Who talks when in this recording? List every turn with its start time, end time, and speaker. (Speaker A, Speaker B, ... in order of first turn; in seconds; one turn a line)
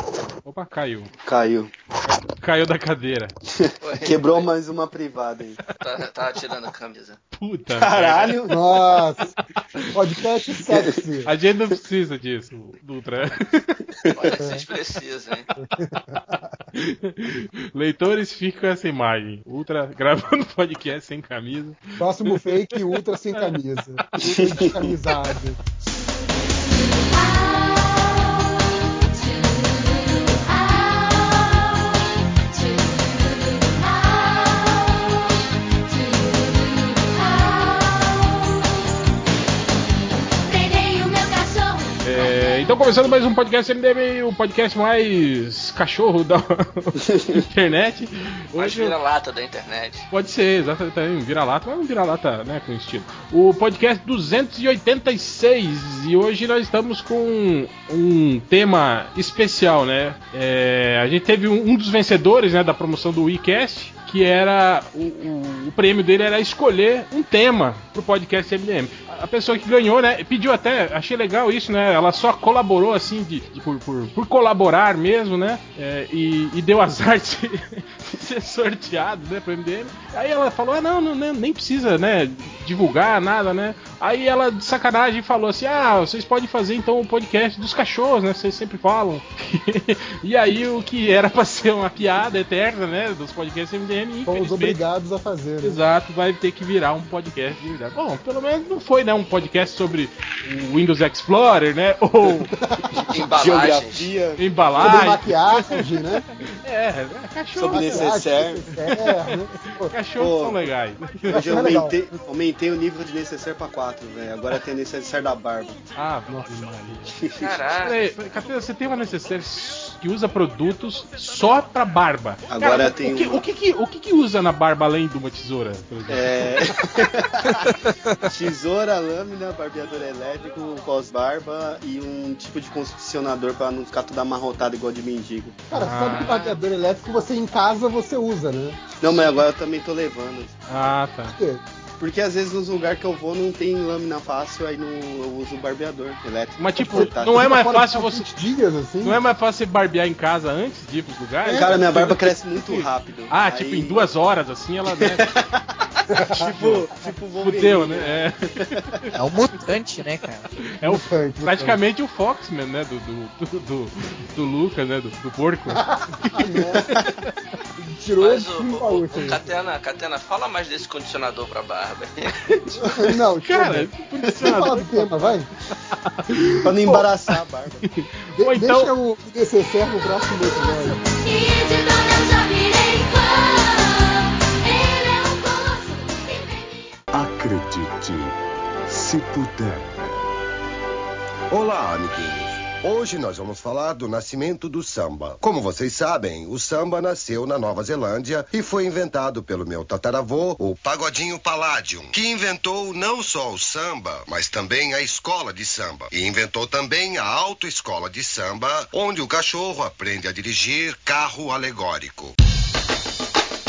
Speaker A: 0.4-1.1
Speaker B: 1.2-1.7
Speaker A: 2.0-3.3
Speaker B: 3.5-5.6
Speaker C: 3.8-4.5
Speaker C: 5.7-7.2
Speaker A: 7.3-8.3
Speaker B: 7.7-8.7
Speaker D: 8.5-9.3
Speaker A: 9.4-9.9
Speaker D: 9.9-11.3
Speaker B: 10.7-10.9
Speaker A: 11.2-13.9
Speaker C: 14.1-15.5
Speaker D: 15.6-16.5
Speaker A: 16.7-22.8
Speaker D: 22.0-25.6
Speaker B: 24.2-24.9
Speaker E: 25.9-38.8
Speaker E: 40.4-42.6
Speaker A: 42.0-49.0
Speaker C: 48.5-50.1
Speaker A: 50.1-94.8
Speaker D: 94.2-95.8
Speaker A: 95.6-102.5
Speaker D: 102.5-103.1
Speaker B: 103.0-105.0
Speaker C: 103.1-104.1
Speaker A: 104.4-108.1
Speaker D: 104.8-106.2
Speaker B: 107.5-108.7
Speaker D: 107.7-109.9
Speaker A: 108.7-111.4
Speaker B: 110.2-110.6
Speaker B: 111.2-115.8
Speaker D: 111.3-111.9
Speaker A: 115.9-117.2
Speaker D: 116.3-116.6
Speaker B: 117.1-117.6
Speaker C: 117.4-118.0
Speaker A: 117.8-126.7
Speaker B: 122.5-123.4
Speaker B: 126.1-127.7
Speaker F: 127.6-128.3
Speaker B: 128.2-135.7
Speaker D: 135.7-139.0
Speaker A: 135.7-136.4
Speaker B: 139.0-140.6
Speaker A: 139.1-139.4
Speaker A: 140.7-141.4
Speaker D: 141.3-141.6
Speaker B: 142.0-147.4
Speaker A: 146.6-148.3
Speaker D: 146.8-149.2
Speaker A: 149.0-155.4
Speaker D: 151.5-151.7
Speaker B: 151.5-154.1
Speaker B: 154.9-159.0
Speaker D: 156.1-156.4
Speaker A: 156.3-156.9
Speaker A: 157.4-159.1
Speaker F: 159.1-160.5
Speaker A: 160.8-167.3
Speaker D: 160.8-161.8
Speaker D: 165.8-166.9
Speaker B: 166.7-167.1
Speaker D: 167.8-169.5
Speaker C: 168.2-172.6
Speaker D: 172.8-175.5
Speaker A: 173.4-177.3
Speaker B: 176.6-177.9
Speaker A: 177.9-178.9
Speaker D: 178.3-181.0
Speaker E: 180.4-186.8
Speaker G: 187.1-188.3
Speaker G: 188.9-190.1
Speaker G: 191.5-212.3